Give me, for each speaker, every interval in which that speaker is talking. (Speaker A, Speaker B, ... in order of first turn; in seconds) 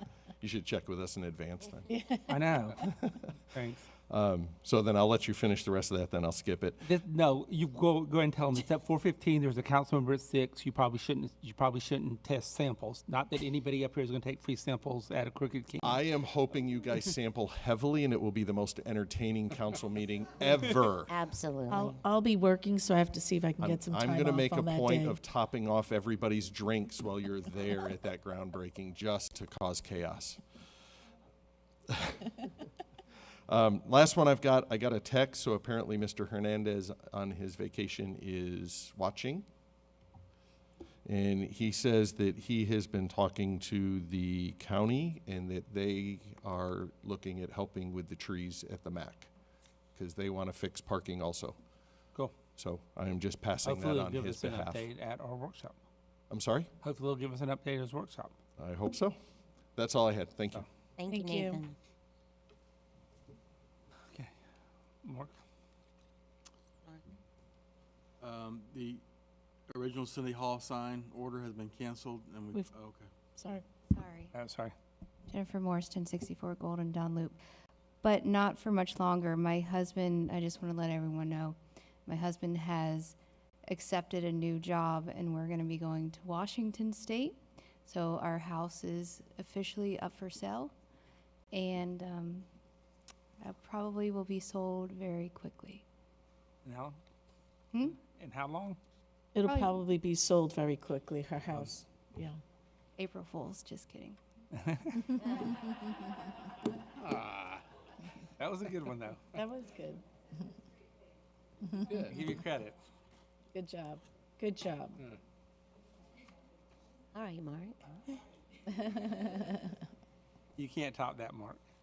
Speaker A: 0.4-1.9, 4.1-6.9, 15.8-21.2, 23.6-30.4, 31.9-32.4, 33.5-39.5, 41.0-49.3, 50.0-51.6, 52.6-54.9, 56.3-56.7, 58.6-59.2, 59.8-60.7
Speaker B: 1.9-2.9, 21.7-25.2, 61.1-61.7, 73.4-73.7, 99.3-102.4, 109.3-110.0, 113.5-115.0, 118.7-119.5
Speaker C: 2.3-2.9, 3.5-3.9, 6.8-16.0, 53.6-55.8, 56.8-58.3, 65.0-65.3, 74.3-74.7, 96.6-97.0, 98.0-98.8, 101.5-101.8, 108.4-109.3, 111.9-112.8, 120.6-121.6
Speaker D: 21.1-22.0, 61.0-61.8, 117.1-117.8
Speaker E: 68.2-69.0, 69.7-73.1
Speaker F: 73.9-74.3, 75.3-77.4, 78.0-90.7, 91.5-92.5, 93.4-95.8, 99.5-99.8, 103.0-104.2